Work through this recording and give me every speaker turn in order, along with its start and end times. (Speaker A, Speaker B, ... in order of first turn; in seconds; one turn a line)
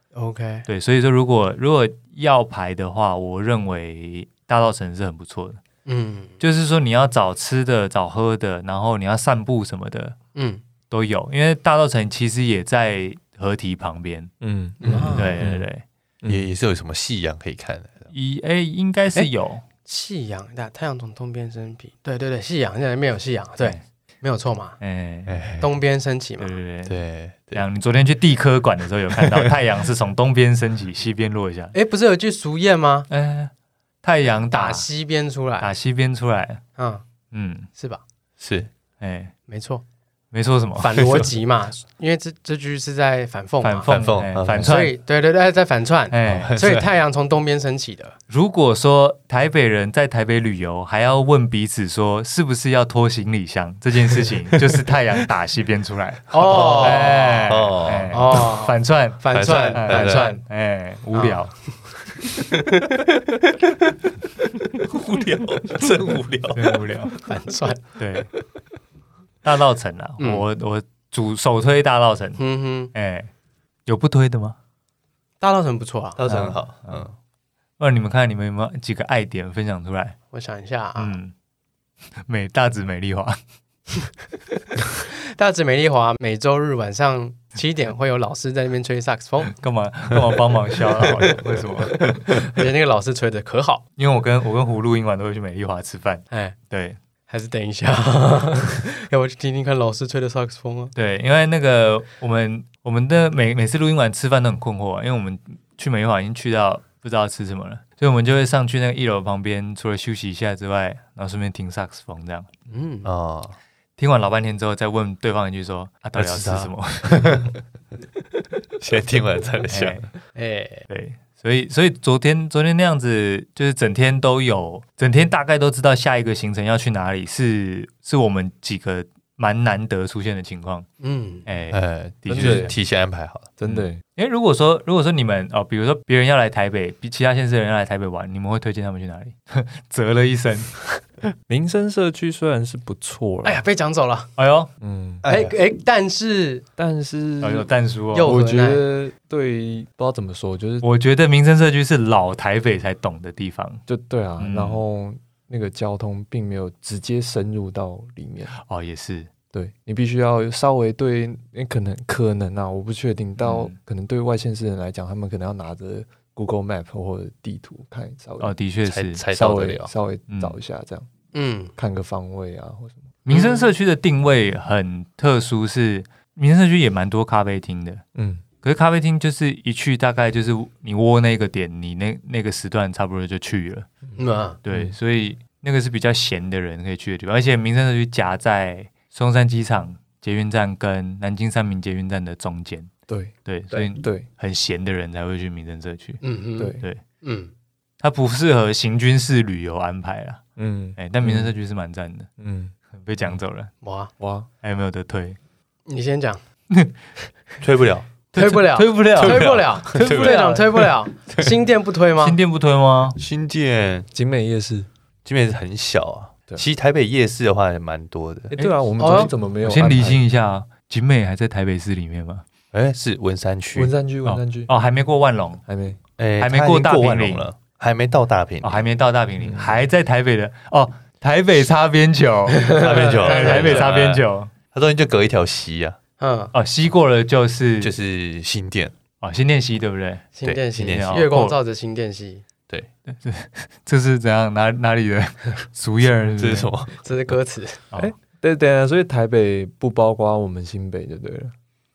Speaker A: 0.1-0.7
Speaker B: 0.7-5.6
Speaker A: 5.8-6.4
Speaker B: 6.4-10.2
Speaker A: 10.3-10.6
Speaker B: 10.9-14.3
Speaker C: 14.4-15.7
Speaker A: 14.8-15.4
Speaker B: 15.1-15.8
Speaker C: 16.2-16.5
Speaker D: 16.3-18.1
Speaker B: 18.1-19.6
Speaker A: 19.8-24.8
Speaker B: 24.8-25.4
Speaker D: 25.3-25.7
Speaker A: 25.6-26.5
Speaker B: 26.4-27.0
Speaker D: 26.9-27.6
Speaker B: 27.5-31.7
Speaker A: 31.7-33.1
Speaker B: 33.1-33.5
Speaker B: 34.0-34.9
Speaker A: 34.5-35.7
Speaker B: 35.6-36.6
Speaker A: 36.8-37.0
Speaker B: 37.3-37.7
Speaker A: 37.8-38.0
Speaker D: 38.4-38.7
Speaker B: 39.0-39.3
Speaker A: 39.5-39.8
Speaker B: 40.3-41.0
Speaker A: 40.8-43.9
Speaker B: 43.6-44.9
Speaker D: 43.9-44.8
Speaker A: 44.5-48.1
Speaker B: 46.1-46.5
Speaker D: 46.2-46.9
Speaker B: 48.3-61.5
Speaker D: 54.5-54.8
Speaker A: 56.3-57.5
Speaker D: 56.4-58.4
Speaker A: 58.1-60.4
Speaker D: 59.3-60.3
Speaker A: 61.1-61.4
Speaker A: 62.5-63.0
Speaker D: 64.8-66.8
Speaker B: 66.5-67.2
Speaker A: 67.2-68.0
Speaker B: 68.0-68.3
Speaker B: 69.4-72.4
Speaker A: 70.2-70.4
Speaker A: 72.4-72.9
Speaker B: 72.9-73.3
Speaker B: 73.8-74.5
Speaker A: 75.4-76.2
Speaker D: 76.2-77.1
Speaker B: 76.3-77.1
Speaker B: 77.8-80.2
Speaker A: 80.3-81.2
Speaker B: 81.0-81.3
Speaker B: 82.2-83.4
Speaker A: 85.1-89.5
Speaker B: 89.5-92.2
Speaker A: 92.1-93.8
Speaker B: 94.0-97.0
Speaker A: 96.3-96.5
Speaker A: 97.3-100.9
Speaker B: 100.9-112.5
Speaker A: 112.7-113.1
Speaker D: 113.0-113.5
Speaker B: 114.0-117.5
Speaker D: 116.2-117.5
Speaker D: 118.8-120.0
Speaker B: 119.7-120.1
Speaker A: 120.3-120.8
Speaker B: 120.9-130.9
Speaker A: 131.0-131.4
Speaker B: 131.4-132.8
Speaker D: 131.7-133.5
Speaker C: 132.3-132.7
Speaker C: 133.6-134.0
Speaker B: 133.7-141.0
Speaker C: 141.5-143.6
Speaker A: 143.4-144.3
Speaker B: 144.4-144.7
Speaker C: 144.8-145.2
Speaker D: 145.2-145.5
Speaker A: 145.2-146.6
Speaker C: 146.8-147.7
Speaker B: 147.4-148.3
Speaker A: 148.1-148.8
Speaker C: 148.2-150.9
Speaker B: 150.8-153.8
Speaker C: 153.9-158.6
Speaker B: 154.4-154.8
Speaker B: 158.5-159.3
Speaker C: 159.5-168.5
Speaker B: 163.4-163.8
Speaker B: 168.4-169.2
Speaker D: 168.8-169.9
Speaker C: 169.3-171.1
Speaker B: 170.3-170.6
Speaker A: 171.3-171.7
Speaker C: 171.8-173.1
Speaker B: 173.2-178.0
Speaker A: 173.3-173.6
Speaker C: 178.1-178.4
Speaker B: 178.6-183.9
Speaker A: 184.2-184.6
Speaker B: 184.6-192.9
Speaker C: 184.7-184.9
Speaker C: 193.1-194.3
Speaker B: 193.4-196.2
Speaker A: 196.2-197.5
Speaker C: 196.6-196.8
Speaker B: 198.0-200.4
Speaker C: 200.6-201.5
Speaker B: 201.0-202.3
Speaker C: 202.4-202.7
Speaker B: 202.9-203.7
Speaker A: 203.8-204.1
Speaker C: 204.2-204.5
Speaker B: 204.6-205.4
Speaker A: 205.9-206.4
Speaker B: 206.7-206.9
Speaker D: 207.6-208.1
Speaker B: 208.3-210.3
Speaker A: 208.3-212.4
Speaker D: 209.2-211.5
Speaker B: 212.2-213.2
Speaker D: 213.2-214.1
Speaker C: 214.1-214.9
Speaker D: 215.2-218.5
Speaker C: 218.5-220.2
Speaker A: 219.0-219.3
Speaker B: 219.6-222.4
Speaker D: 222.7-223.9
Speaker C: 223.7-224.7
Speaker B: 224.2-225.6
Speaker C: 225.7-226.0
Speaker D: 226.2-228.8
Speaker B: 226.4-227.5
Speaker B: 228.6-234.5
Speaker C: 229.4-229.7
Speaker A: 232.5-233.9
Speaker D: 232.8-236.0
Speaker A: 236.2-236.5
Speaker B: 236.5-237.9
Speaker D: 237.8-238.9
Speaker B: 239.2-241.5
Speaker A: 240.3-242.4
Speaker D: 240.4-241.1
Speaker B: 243.1-246.7
Speaker D: 246.4-247.0
Speaker A: 247.0-247.8
Speaker C: 247.9-251.5